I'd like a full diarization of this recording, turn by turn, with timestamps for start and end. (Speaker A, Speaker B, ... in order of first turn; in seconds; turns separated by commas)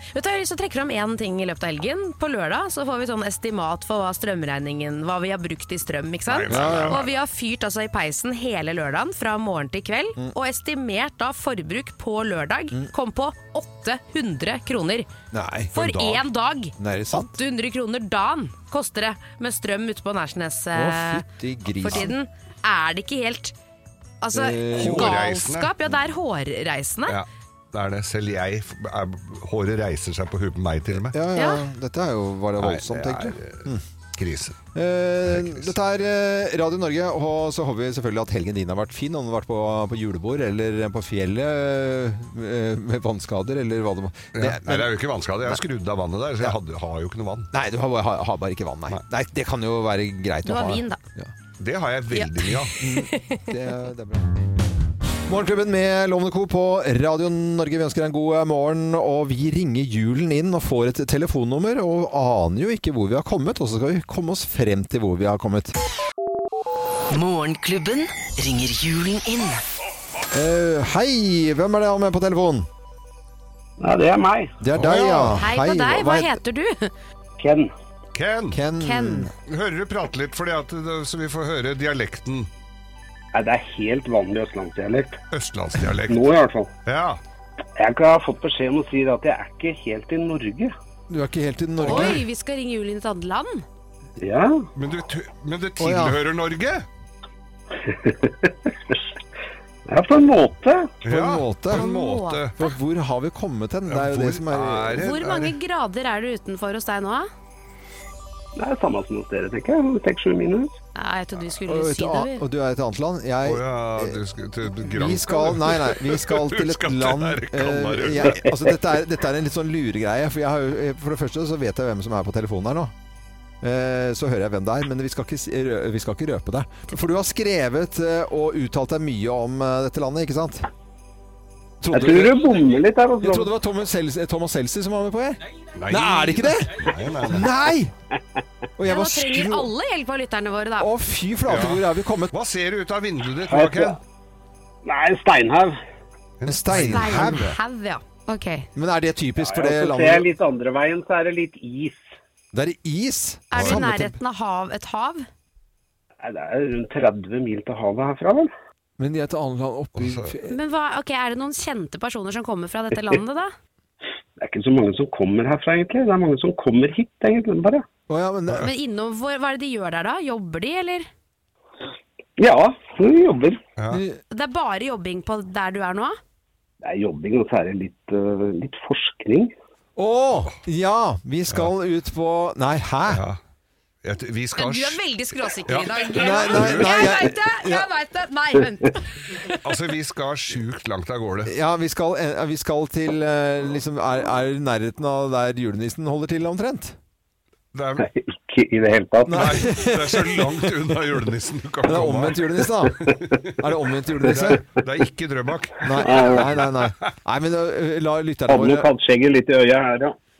Speaker A: 0.1-15.1, Speaker B: 6.3-7.2, Speaker C: 6.5-7.0, Speaker C: 15.3-16.2, Speaker A: 15.7-21.2, Speaker C: 16.8-17.4, Speaker C: 20.7-22.1, Speaker A: 21.8-23.5, Speaker A: 24.2-27.2, Speaker C: 24.3-25.2, Speaker B: 24.7-25.7, Speaker B: 27.1-31.1, Speaker C: 31.0-33.8, Speaker A: 31.3-31.6, Speaker B: 32.6-34.6, Speaker C: 34.7-45.6, Speaker B: 35.3-35.7, Speaker B: 44.3-47.5, Speaker C: 47.5-51.3, Speaker A: 50.4-51.0, Speaker B: 51.6-52.7, Speaker A: 52.1-53.4, Speaker C: 52.8-54.3, Speaker C: 55.3-65.7, Speaker D: 67.1-69.6, Speaker C: 70.3-72.7, Speaker E: 73.8-74.5, Speaker C: 74.6-76.3, Speaker B: 74.7-75.4, Speaker A: 75.3-76.9, Speaker E: 77.4-77.7, Speaker B: 78.1-78.6, Speaker C: 78.5-79.3, Speaker A: 78.8-79.3, Speaker B: 79.5-82.5, Speaker E: 83.3-85.2, Speaker B: 85.3-86.2, Speaker E: 86.1-86.7, Speaker B: 86.8-87.2, Speaker E: 87.8-90.7, Speaker C: 91.1-92.2, Speaker A: 91.8-93.6, Speaker E: 94.2-94.7, Speaker B: 94.8-96.8, Speaker C: 95.8-96.2, Speaker E: 97.8-99.1, Speaker E: 99.9-100.9, Speaker B: 101.0-102.5, Speaker C: 101.1-101.9, Speaker A: 101.7-102.7, Speaker C: 102.6-105.0, Speaker B: 103.9-105.5, Speaker A: 104.9-107.3, Speaker E: 108.5-110.7, Speaker A: 110.9-112.4, Speaker C: 111.7-114.2, Speaker B: 113.4-118.5, Speaker C: 114.7-122.9, Speaker C: 123.6-130.7, Speaker C: 131.8-132.5, Speaker E: 131.9-133.5, Speaker C: 133.2-137.9, Speaker B: 135.7-137.5, Speaker C: 138.8-139.7, Speaker A: 138.8-140.9, Speaker C: 140.8-142.3, Speaker B: 141.5-144.0, Speaker E: 143.5-144.0, Speaker E: 144.8-145.7, Speaker B: 146.4-147.5, Speaker C: 146.4-147.6, Speaker A: 146.9-148.7, Speaker C: 148.7-150.3, Speaker E: 149.4-152.1, Speaker C: 152.5-154.1, Speaker A: 153.5-155.3, Speaker E: 156.2-158.5, Speaker C: 159.0-160.5, Speaker B: 160.0-160.3, Speaker A: 160.5-163.5, Speaker E: 164.4-167.8, Speaker C: 168.1-168.7, Speaker A: 168.6-171.1, Speaker E: 172.4-173.6, Speaker C: 173.9-174.2, Speaker A: 174.3-176.2, Speaker E: 176.8-179.5, Speaker C: 179.9-183.2, Speaker B: 183.1-183.4, Speaker B: 184.0-185.0, Speaker A: 184.6-189.5, Speaker B: 185.7-187.2, Speaker C: 186.2-187.9, Speaker B: 189.6-191.5, Speaker C: 191.4-196.9, Speaker B: 197.7-198.1, Speaker E: 198.0-199.6, Speaker C: 199.2-200.6, Speaker B: 199.3-202.4, Speaker C: 201.8-203.0, Speaker C: 203.6-204.6, Speaker E: 204.3-204.6, Speaker B: 204.3-206.8, Speaker C: 205.8-208.9, Speaker E: 206.0-206.5, Speaker E: 208.5-210.2